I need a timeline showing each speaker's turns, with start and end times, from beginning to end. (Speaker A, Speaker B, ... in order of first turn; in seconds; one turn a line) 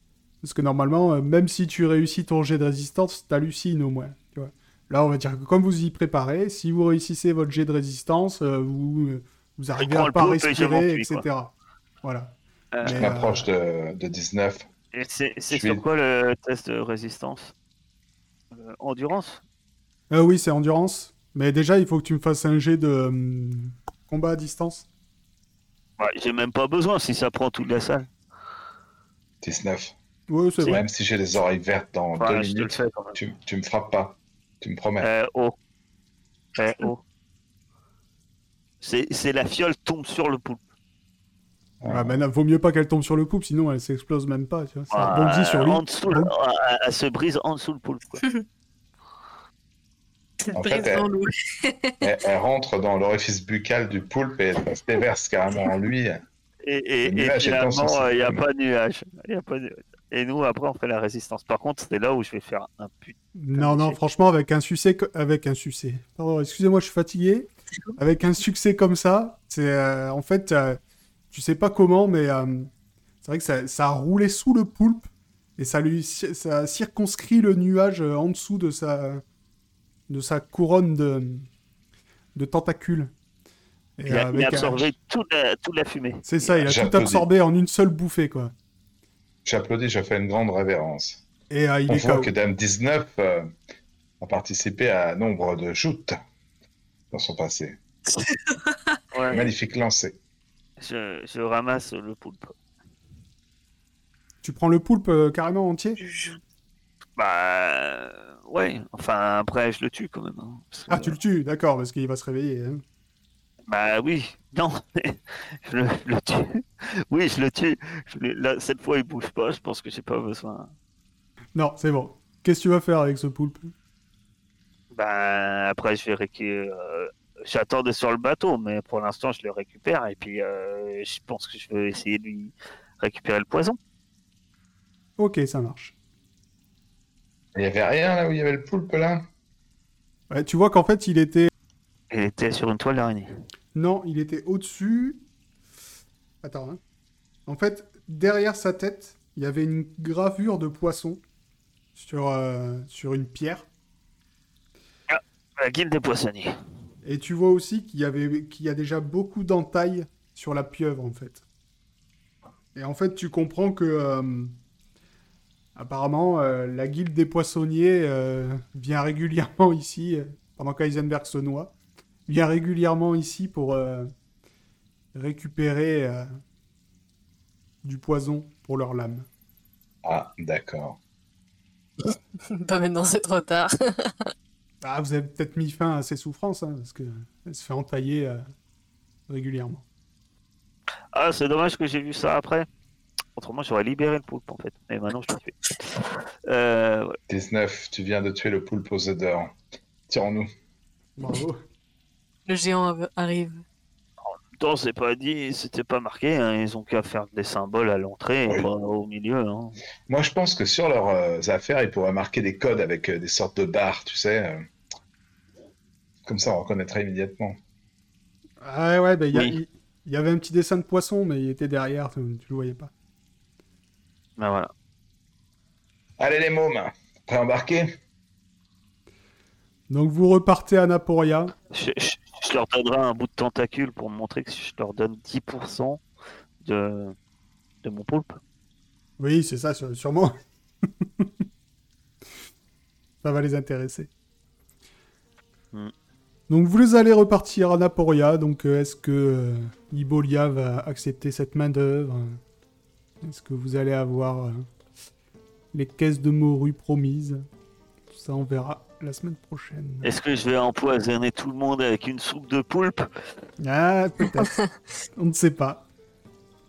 Speaker A: 0.4-13.5
Speaker B: 9.8-11.2
Speaker B: 12.7-13.1
Speaker C: 12.8-14.6
Speaker B: 14.9-17.5
Speaker C: 15.5-15.8
Speaker B: 18.5-19.4
Speaker A: 20.1-24.9
Speaker B: 26.0-28.1
Speaker C: 29.4-29.9
Speaker A: 30.3-30.8
Speaker B: 30.6-30.8
Speaker C: 30.6-35.1
Speaker B: 32.2-33.2
Speaker B: 35.0-35.6
Speaker B: 36.6-37.0
Speaker B: 38.8-40.6
Speaker C: 41.8-42.1
Speaker A: 41.9-46.3
Speaker B: 44.9-48.2
Speaker D: 50.4-52.0
Speaker C: 50.5-51.1
Speaker C: 52.0-56.2
Speaker B: 56.6-64.0
Speaker C: 57.0-58.4
Speaker A: 63.4-70.8
Speaker A: 71.3-72.7
Speaker A: 73.2-79.2
Speaker A: 80.1-81.5
Speaker A: 82.3-83.1
Speaker A: 84.0-84.9
Speaker B: 84.1-86.6
Speaker A: 86.2-88.5
Speaker C: 86.7-87.3
Speaker C: 89.5-91.2
Speaker A: 91.5-92.3
Speaker C: 91.9-93.5
Speaker C: 94.2-96.2
Speaker C: 97.1-97.8
Speaker D: 98.2-98.8
Speaker B: 99.1-99.5
Speaker C: 99.3-100.2
Speaker B: 100.8-102.5
Speaker A: 104.4-106.0
Speaker D: 106.0-106.4
Speaker B: 107.2-111.2
Speaker A: 110.9-112.8
Speaker B: 113.7-120.7
Speaker A: 121.5-123.7
Speaker B: 124.9-133.8
Speaker A: 135.2-135.9
Speaker C: 137.6-139.3
Speaker A: 140.3-141.5
Speaker B: 142.1-143.3
Speaker A: 143.7-145.2
Speaker A: 146.4-146.8
Speaker A: 147.5-151.2
Speaker A: 151.9-153.7
Speaker B: 155.1-156.5
Speaker A: 157.0-161.4
Speaker A: 162.8-164.5
Speaker A: 165.8-171.8
Speaker A: 172.3-174.1
Speaker A: 175.1-176.3
Speaker A: 177.8-179.3
Speaker C: 180.1-181.0
Speaker D: 182.0-184.3
Speaker A: 184.8-188.4
Speaker A: 189.3-189.8
Speaker B: 191.1-192.7
Speaker B: 193.4-197.2
Speaker C: 197.3-199.6
Speaker C: 200.1-200.5
Speaker A: 201.2-201.6
Speaker D: 202.5-203.6
Speaker B: 204.2-209.8
Speaker C: 210.1-214.7
Speaker C: 216.2-217.6
Speaker A: 218.6-222.9
Speaker B: 224.4-224.7
Speaker C: 226.2-227.9
Speaker A: 229.9-231.5
Speaker B: 231.7-236.0
Speaker B: 236.6-237.2
Speaker B: 237.8-238.4
Speaker A: 239.2-241.4
Speaker A: 243.2-244.1
Speaker A: 246.5-252.4
Speaker A: 253.2-254.7
Speaker A: 255.7-257.4
Speaker A: 258.1-260.1
Speaker B: 260.0-263.1
Speaker A: 263.6-264.5
Speaker A: 265.1-265.9